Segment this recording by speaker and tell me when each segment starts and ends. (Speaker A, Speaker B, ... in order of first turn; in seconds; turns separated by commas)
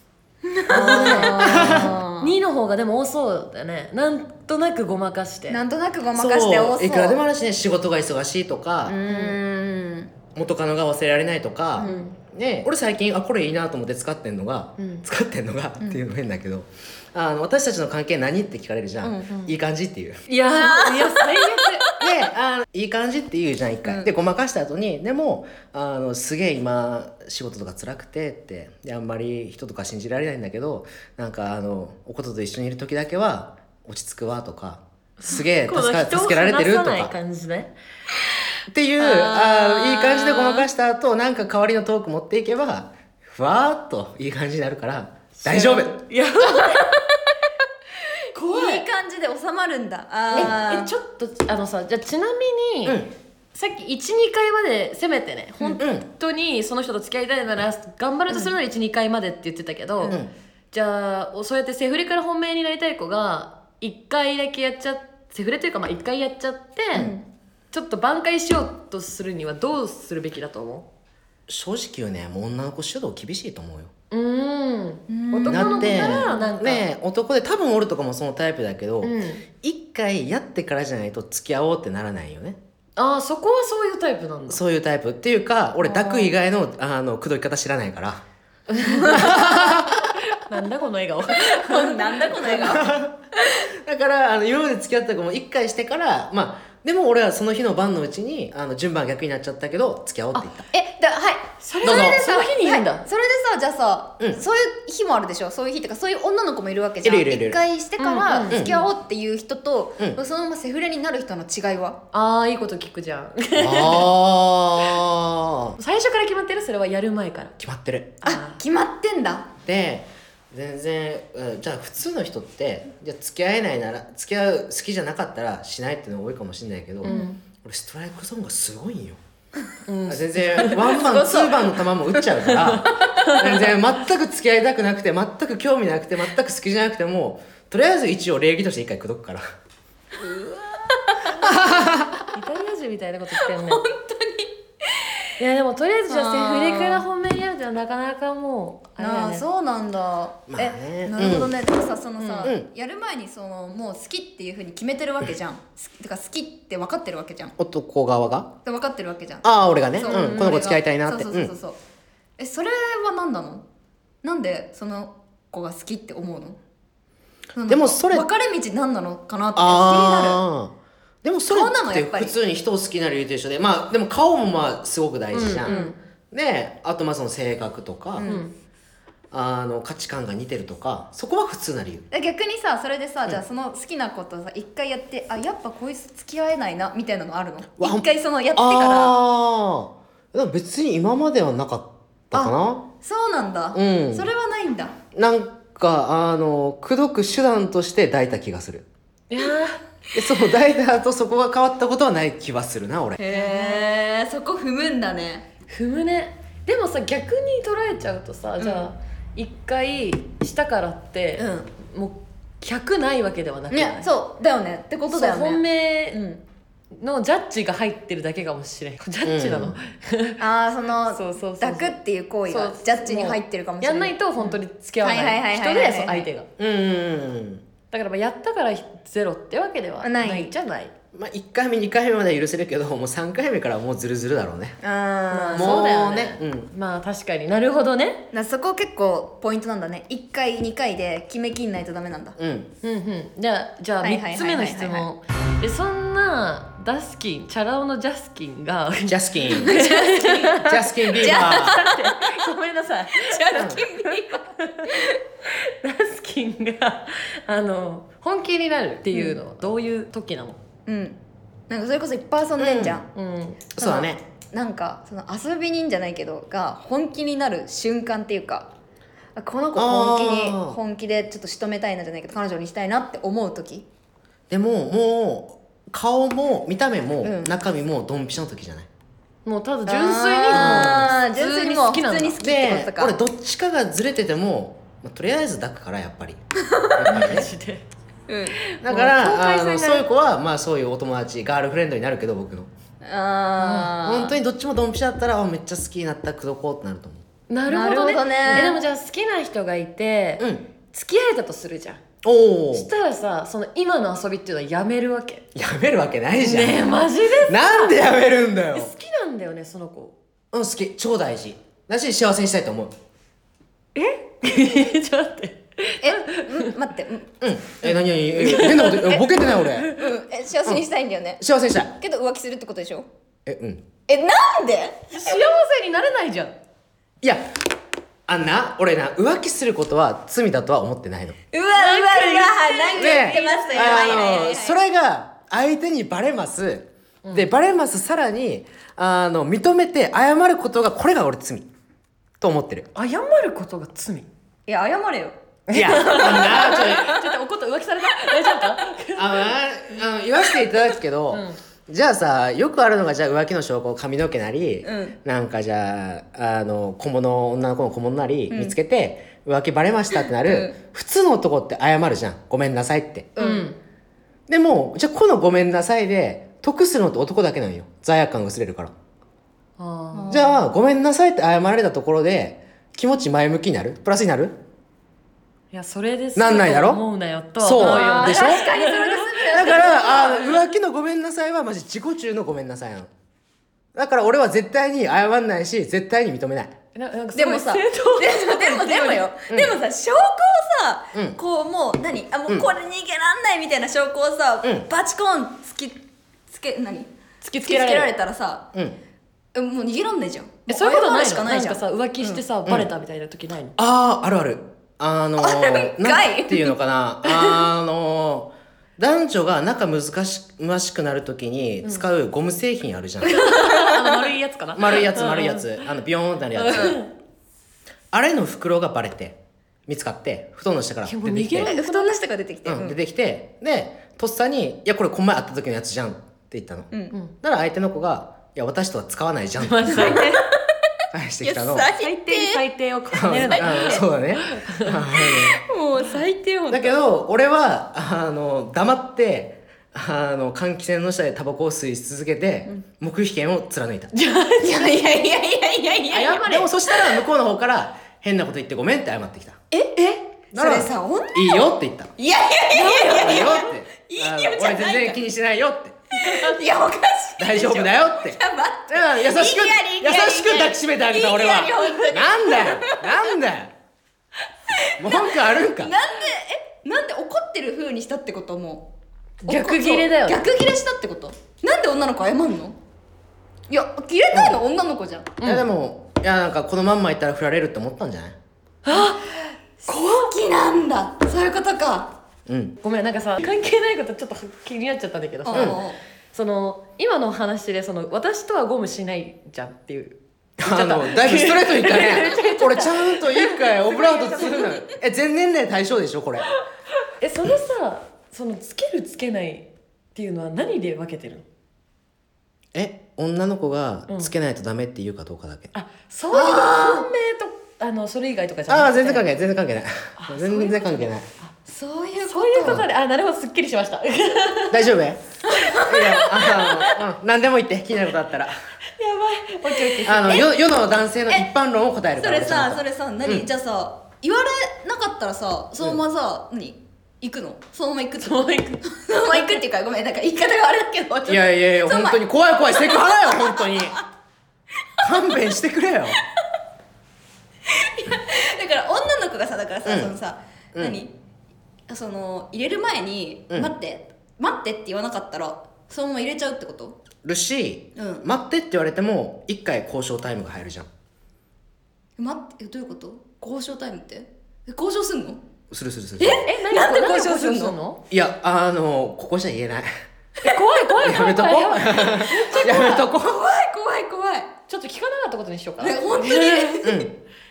Speaker A: 0.5-2.4, Speaker B: 0.7-5.6, Speaker C: 0.8-1.9, Speaker A: 5.5-7.2, Speaker C: 6.2-9.0, Speaker A: 8.9-10.1, Speaker B: 9.1-9.4, Speaker C: 10.3-20.2, Speaker A: 11.8-12.1, Speaker B: 11.8-12.2, Speaker B: 14.8-15.1, Speaker A: 19.0-19.3, Speaker B: 20.3-21.9, Speaker A: 20.6-22.1, Speaker C: 22.0-37.1, Speaker A: 23.9-24.1, Speaker B: 35.2-37.7, Speaker C: 38.7-46.0, Speaker A: 39.0-40.7, Speaker B: 45.4-47.1, Speaker A: 46.4-46.9, Speaker B: 48.3-48.8, Speaker A: 48.4-51.0, Speaker B: 50.3-53.0, Speaker C: 52.9-53.1, Speaker B: 53.5-60.2, Speaker C: 55.8-56.0, Speaker B: 60.7-67.1, Speaker A: 67.0-67.2, Speaker B: 67.7-70.9, Speaker C: 71.5-73.9, Speaker B: 74.1-76.9, Speaker A: 75.1-76.5, Speaker C: 75.5-82.6, Speaker B: 79.0-79.4, Speaker B: 83.0-84.6, Speaker C: 84.5-88.2, Speaker A: 85.8-86.3, Speaker B: 88.7-89.5, Speaker A: 88.8-89.4, Speaker C: 89.0-90.2, Speaker B: 90.2-92.7, Speaker A: 91.3-93.7, Speaker C: 92.6-93.2, Speaker C: 93.7-100.7, Speaker A: 100.7-112.0, Speaker B: 101.6-103.0, Speaker C: 101.8-102.2, Speaker C: 107.0-107.6, Speaker B: 108.0-108.9, Speaker C: 108.5-108.8, Speaker B: 112.1-114.1, Speaker C: 113.6-115.8, Speaker B: 115.8-117.6, Speaker C: 117.6-118.2, Speaker B: 118.2-118.6, Speaker A: 118.2-119.5, Speaker C: 119.6-129.2, Speaker B: 127.0-127.4, Speaker B: 129.9-131.5, Speaker C: 130.1-139.4, Speaker A: 131.0-131.6, Speaker B: 132.4-133.7, Speaker A: 140.2-142.2, Speaker C: 141.4-142.2, Speaker B: 142.3-143.8, Speaker A: 143.4-145.3, Speaker B: 145.4-149.4, Speaker A: 146.1-147.0, Speaker A: 149.0-157.6, Speaker C: 150.5-151.5, Speaker B: 152.2-152.5, Speaker C: 157.6-158.5, Speaker A: 158.7-161.8, Speaker C: 159.4-161.5, Speaker B: 160.1-160.5, Speaker A: 162.4-163.6, Speaker A: 164.2-166.6, Speaker A: 167.6-170.4, Speaker C: 167.7-168.3, Speaker C: 169.6-175.8, Speaker A: 171.5-172.3, Speaker B: 175.3-175.9, Speaker A: 175.7-175.9, Speaker C: 176.3-178.3, Speaker A: 178.2-178.4, Speaker B: 178.2-178.5, Speaker C: 179.3-182.1, Speaker A: 182.1-189.2, Speaker C: 187.8-192.8, Speaker A: 192.3-194.9, Speaker C: 193.7-194.3, Speaker C: 195.2-198.9, Speaker B: 199.3-199.8, Speaker C: 200.1-203.2, Speaker A: 203.2-205.5, Speaker B: 203.3-203.8, Speaker B: 205.7-214.1, Speaker A: 208.6-208.9, Speaker A: 211.4-211.7, Speaker A: 213.7-216.4, Speaker B: 215.1-216.2, Speaker B: 217.0-220.4, Speaker C: 219.2-219.8, Speaker A: 220.4-226.3, Speaker B: 221.1-221.9, Speaker B: 222.5-226.5, Speaker C: 226.6-227.6, Speaker B: 227.9-230.9, Speaker A: 230.0-230.5, Speaker C: 231.1-234.8, Speaker A: 234.8-235.8, Speaker B: 235.3-238.2, Speaker C: 235.5-236.7, Speaker A: 238.3-242.4, Speaker C: 242.4-242.7, Speaker B: 242.8-260.6, Speaker A: 244.0-245.1, Speaker C: 249.1-249.8, Speaker A: 249.6-252.4, Speaker C: 250.6-251.8, Speaker A: 253.1-255.2, Speaker C: 253.6-253.8, Speaker A: 260.9-261.2, Speaker A: 261.7-263.1, Speaker C: 262.6-263.0, Speaker B: 263.1-263.6, Speaker C: 263.7-264.2, Speaker A: 263.8-268.7, Speaker A: 269.4-273.9, Speaker C: 269.8-270.8, Speaker C: 274.5-278.9, Speaker A: 277.2-277.6, Speaker B: 279.4-282.4, Speaker A: 279.9-283.1, Speaker C: 280.5-281.1, Speaker C: 282.4-286.4, Speaker A: 286.7-287.1, Speaker C: 286.9-287.5, Speaker B: 287.1-287.8, Speaker A: 288.3-288.6, Speaker B: 288.6-290.1, Speaker C: 288.8-292.7, Speaker A: 293.0-294.4, Speaker B: 293.6-293.9, Speaker C: 293.9-297.2, Speaker B: 297.5-302.0, Speaker A: 297.7-298.8, Speaker C: 298.4-298.7, Speaker C: 300.4-300.7, Speaker C: 302.2-302.9, Speaker B: 302.7-305.4, Speaker C: 305.5-308.9, Speaker B: 306.4-308.0, Speaker B: 308.7-310.1, Speaker C: 310.5-312.9, Speaker B: 314.0-316.7, Speaker A: 316.0-317.3, Speaker C: 317.4-319.9, Speaker B: 318.4-320.1, Speaker A: 318.6-319.2, Speaker A: 319.9-321.4, Speaker C: 321.4-321.9, Speaker A: 322.0-323.1, Speaker C: 323.5-323.9, Speaker A: 324.1-325.4, Speaker B: 325.1-326.6, Speaker C: 327.2-327.6, Speaker C: 328.3-331.4, Speaker A: 331.5-334.8, Speaker B: 331.8-334.5, Speaker C: 333.0-341.7, Speaker B: 337.2-337.5, Speaker C: 342.4-342.9, Speaker B: 342.9-344.3, Speaker A: 344.7-345.4, Speaker B: 345.7-349.5, Speaker C: 345.7-347.2, Speaker A: 346.0-347.2, Speaker C: 349.2-363.3, Speaker B: 351.3-351.6, Speaker A: 354.8-355.2, Speaker A: 358.5-358.8, Speaker A: 360.4-360.8, Speaker A: 363.4-363.7, Speaker B: 363.4-363.8, Speaker C: 364.5-368.9, Speaker B: 369.8-370.4, Speaker A: 370.1-370.7, Speaker C: 370.3-374.6, Speaker B: 375.7-380.3, Speaker C: 376.4-377.0, Speaker C: 377.6-378.6, Speaker A: 377.8-380.6, Speaker C: 379.5-383.1, Speaker C: 383.9-386.8, Speaker B: 386.9-389.2, Speaker A: 387.4-397.1, Speaker C: 389.5-389.8, Speaker B: 397.4-398.1, Speaker A: 397.6-398.7, Speaker A: 399.5-402.4, Speaker B: 400.7-403.8, Speaker C: 403.8-413.4, Speaker A: 405.4-406.8, Speaker B: 413.2-415.9, Speaker A: 413.4-414.0, Speaker C: 414.8-417.0, Speaker B: 416.6-417.1, Speaker C: 418.1-421.8, Speaker B: 421.1-422.1, Speaker A: 421.6-423.0, Speaker C: 422.6-430.2, Speaker B: 429.6-430.5, Speaker A: 429.9-430.5, Speaker C: 431.1-431.9, Speaker A: 431.4-432.6, Speaker B: 432.0-435.0, Speaker A: 433.1-434.1, Speaker C: 433.1-435.6, Speaker A: 435.2-437.0, Speaker C: 436.7-444.1, Speaker B: 444.1-445.0, Speaker A: 444.6-447.2, Speaker B: 446.1-446.7, Speaker C: 446.4-449.6, Speaker A: 449.7-455.2, Speaker C: 450.5-452.1, Speaker B: 452.7-453.6, Speaker C: 453.0-456.0, Speaker A: 456.1-463.3, Speaker B: 456.2-456.6, Speaker C: 457.4-458.4, Speaker C: 458.9-463.7, Speaker A: 464.7-468.9, Speaker C: 465.0-465.9, Speaker B: 469.4-470.4, Speaker A: 469.5-472.8, Speaker A: 473.7-475.4, Speaker C: 474.3-474.6, Speaker B: 475.4-475.7, Speaker C: 475.4-478.4, Speaker B: 478.9-479.3, Speaker A: 478.9-479.1, Speaker A: 479.8-482.1, Speaker B: 479.8-480.3, Speaker C: 482.5-482.7, Speaker B: 482.8-485.8, Speaker A: 485.4-486.0, Speaker C: 485.5-485.8, Speaker B: 486.3-494.7, Speaker C: 490.6-496.5, Speaker A: 494.3-494.9, Speaker B: 497.2-501.4, Speaker C: 502.7-505.7, Speaker B: 505.7-509.3, Speaker A: 506.3-507.1, Speaker C: 508.7-511.3, Speaker B: 510.2-511.5, Speaker A: 511.7-512.8, Speaker B: 512.2-514.8, Speaker C: 512.6-512.9, Speaker C: 514.7-515.2, Speaker A: 515.5-516.4, Speaker B: 515.5-517.0, Speaker C: 515.9-518.5, Speaker B: 519.0-520.5, Speaker C: 520.0-523.5, Speaker A: 520.1-520.5, Speaker A: 522.2-534.0, Speaker B: 528.2-529.6, Speaker C: 531.3-534.0, Speaker C: 535.0-536.2, Speaker A: 535.0-535.4, Speaker A: 537.7-541.1, Speaker C: 539.9-540.1, Speaker A: 541.9-547.0, Speaker C: 547.2-550.9, Speaker A: 548.0-548.3, Speaker A: 552.2-555.4, Speaker C: 555.7-556.5, Speaker A: 556.2-557.8, Speaker B: 556.4-558.0, Speaker C: 558.1-559.9, Speaker B: 560.4-563.1, Speaker C: 561.0-563.4, Speaker A: 562.3-564.5, Speaker B: 564.7-566.9, Speaker A: 565.8-567.0, Speaker C: 566.8-567.1